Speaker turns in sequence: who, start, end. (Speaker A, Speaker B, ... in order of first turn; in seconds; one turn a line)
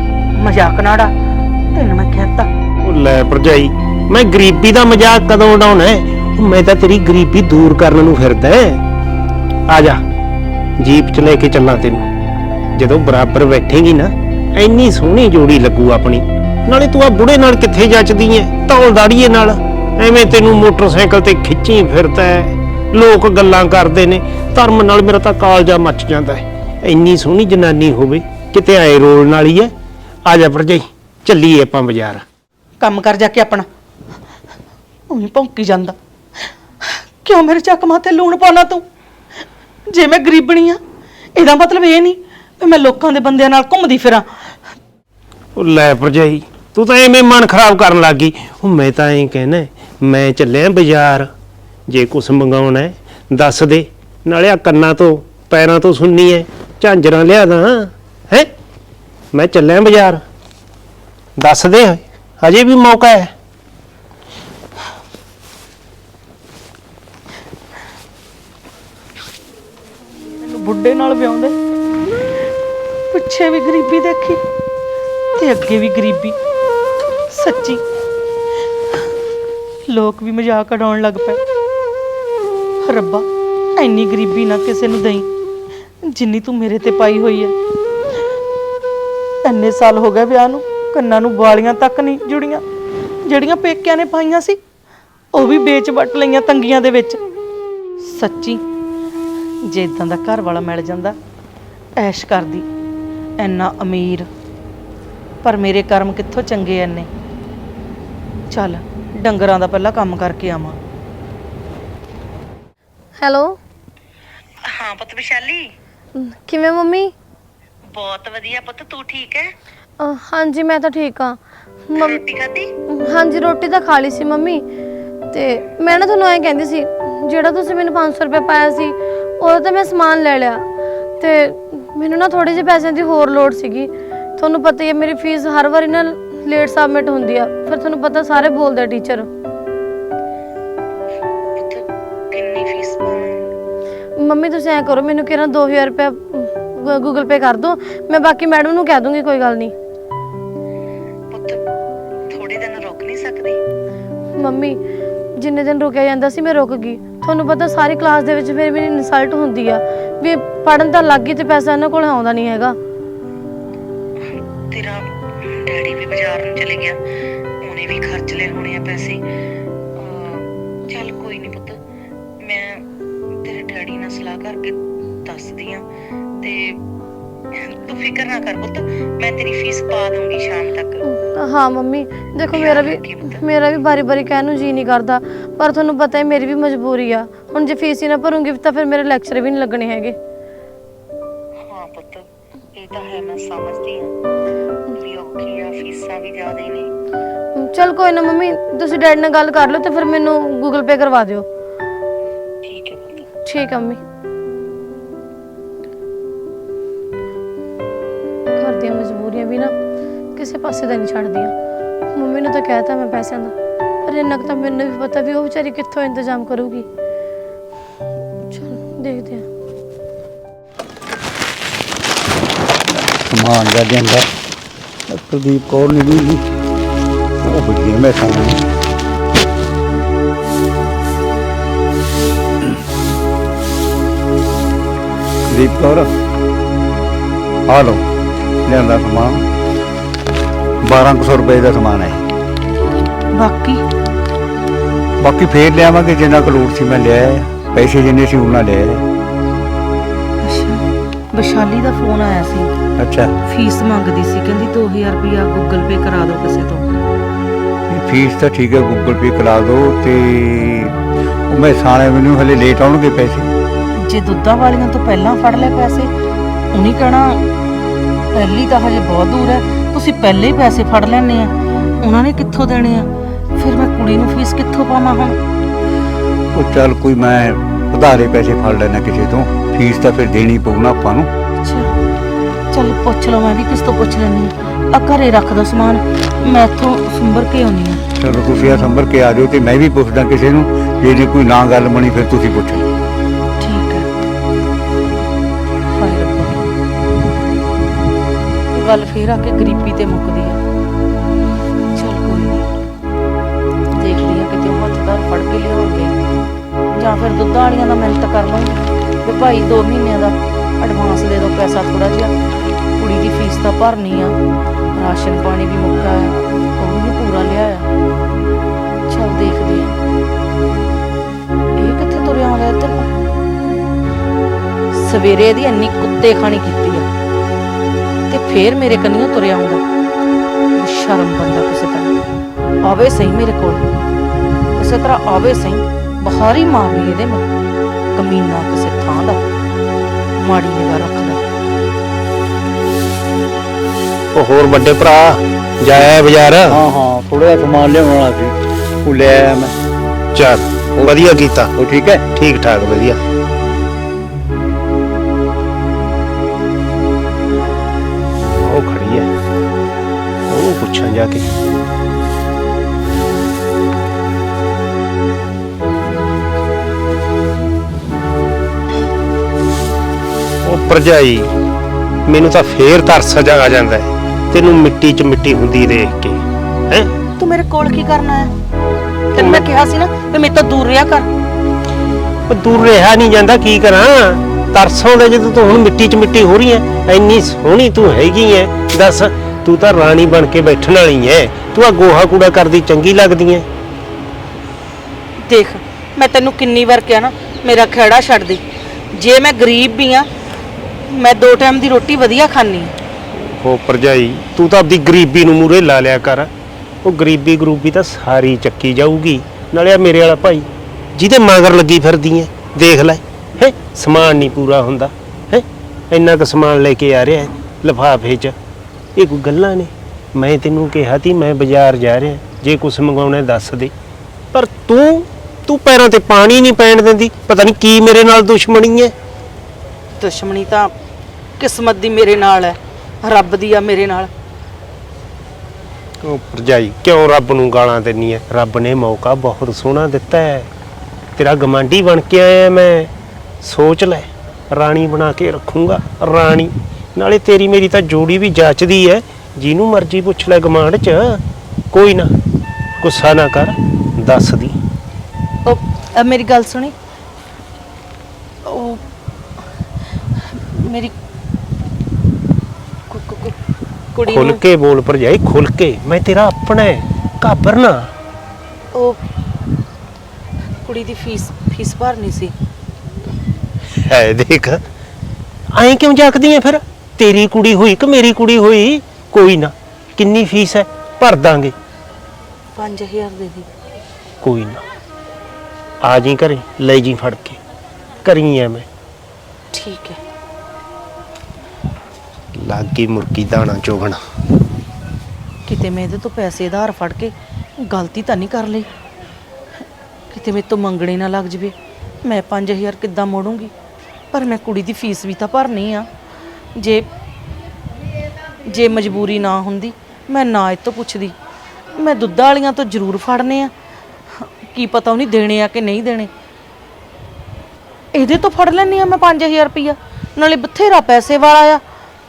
Speaker A: 0.3-1.1
Speaker A: 1.7-2.5
Speaker B: 2.8-8.8
Speaker B: 9.7-10.0
Speaker B: 10.8-12.0
Speaker B: 12.8-29.7
Speaker B: 30.2-32.2
Speaker A: 32.8-33.7
Speaker A: 35.1-36.0
Speaker A: 36.8-38.8
Speaker A: 39.9-40.8
Speaker A: 41.3-44.3
Speaker B: 45.5-51.3
Speaker B: 51.9-58.5
Speaker B: 59.3-60.2
Speaker B: 61.4-63.3
Speaker A: 70.4-71.5
Speaker A: 73.1-74.4
Speaker A: 75.3-76.4
Speaker A: 77.3-77.8
Speaker A: 79.9-81.4
Speaker A: 82.8-85.3
Speaker A: 86.0-87.5
Speaker A: 89.5-92.6
Speaker A: 93.2-94.6
Speaker A: 95.3-97.2
Speaker A: 98.0-98.6
Speaker A: 99.6-101.2
Speaker A: 102.0-102.7
Speaker A: 103.4-104.3
Speaker A: 105.4-107.1
Speaker A: 108.5-110.8
Speaker A: 114.7-115.7
Speaker C: 116.5-117.1
Speaker A: 117.9-119.5
Speaker C: 120.0-121.4
Speaker A: 122.0-122.7
Speaker C: 123.3-124.6
Speaker C: 125.3-130.6
Speaker C: 131.2-139.2
Speaker A: 141.6-143.5
Speaker C: 144.4-146.4
Speaker C: 147.1-149.7
Speaker A: 151.3-151.6
Speaker A: 152.3-153.6
Speaker C: 155.4-162.7
Speaker A: 164.7-167.0
Speaker A: 167.6-169.2
Speaker A: 169.9-171.8
Speaker A: 172.4-172.9
Speaker A: 173.4-175.8
Speaker A: 176.4-176.8
Speaker A: 177.5-181.2
Speaker C: 181.7-182.9
Speaker A: 182.5-183.5
Speaker C: 183.8-190.1
Speaker A: 191.6-194.1
Speaker A: 194.9-196.9
Speaker C: 197.7-201.4
Speaker A: 202.6-203.3
Speaker C: 203.5-204.0
Speaker C: 208.6-209.7
Speaker C: 210.3-211.5
Speaker C: 212.2-213.5
Speaker C: 214.1-216.8
Speaker C: 218.6-219.4
Speaker D: 223.0-224.3
Speaker D: 225.1-226.4
Speaker D: 227.4-228.6
Speaker D: 235.5-236.1
Speaker D: 237.7-238.0
Speaker D: 238.7-239.4
Speaker D: 240.8-242.2
Speaker A: 243.3-243.8
Speaker D: 245.2-249.1
Speaker A: 250.4-252.7
Speaker D: 253.0-253.3
Speaker A: 253.4-256.9
Speaker D: 257.9-260.9
Speaker D: 261.5-263.5
Speaker A: 264.0-266.1
Speaker A: 266.7-267.4
Speaker A: 268.3-275.4
Speaker D: 276.5-281.3
Speaker A: 281.6-281.9
Speaker A: 282.7-288.0
Speaker D: 288.2-292.8
Speaker A: 293.6-294.1
Speaker A: 295.9-296.6
Speaker A: 298.7-300.6
Speaker A: 301.9-302.7
Speaker A: 303.9-306.1
Speaker A: 306.9-312.3
Speaker A: 313.0-314.4
Speaker A: 314.9-317.9
Speaker A: 319.1-320.0
Speaker A: 321.8-323.1
Speaker A: 324.9-327.1
Speaker A: 328.3-329.8
Speaker A: 330.8-332.1
Speaker A: 332.8-333.9
Speaker A: 334.8-337.4
Speaker A: 338.1-339.4
Speaker A: 340.4-341.4
Speaker B: 344.4-346.8
Speaker D: 346.7-349.7
Speaker B: 350.4-351.7
Speaker D: 350.9-352.2
Speaker B: 352.3-353.2
Speaker B: 358.6-359.3
Speaker B: 360.5-361.5
Speaker B: 370.6-371.5
Speaker B: 372.3-377.1
Speaker A: 377.4-378.5
Speaker A: 379.3-381.3
Speaker B: 379.4-379.7
Speaker B: 382.5-393.7
Speaker A: 395.5-398.6
Speaker A: 399.1-400.3
Speaker A: 401.1-402.9
Speaker B: 403.4-406.5
Speaker B: 407.0-418.5
Speaker B: 419.1-423.9
Speaker B: 424.5-429.1
Speaker A: 430.2-430.9
Speaker A: 431.6-434.3
Speaker B: 436.2-440.7
Speaker B: 441.4-443.1
Speaker B: 443.6-451.4
Speaker B: 451.9-452.3
Speaker B: 453.0-454.7
Speaker A: 455.6-456.9
Speaker A: 458.6-459.0
Speaker A: 460.5-461.1
Speaker A: 463.1-463.6
Speaker A: 464.1-464.6
Speaker B: 464.3-468.1
Speaker A: 468.9-469.2
Speaker A: 470.8-472.5
Speaker B: 473.9-474.8
Speaker B: 475.7-481.7
Speaker A: 482.8-483.7
Speaker B: 484.4-484.8
Speaker B: 486.0-487.6
Speaker B: 488.2-488.9
Speaker A: 489.7-490.2
Speaker B: 492.5-494.2
Speaker A: 495.6-498.9
Speaker A: 500.3-503.7
Speaker A: 504.3-506.1
Speaker A: 506.8-507.1
Speaker A: 508.6-511.4
Speaker A: 511.9-513.7
Speaker A: 514.3-516.3
Speaker A: 518.1-521.8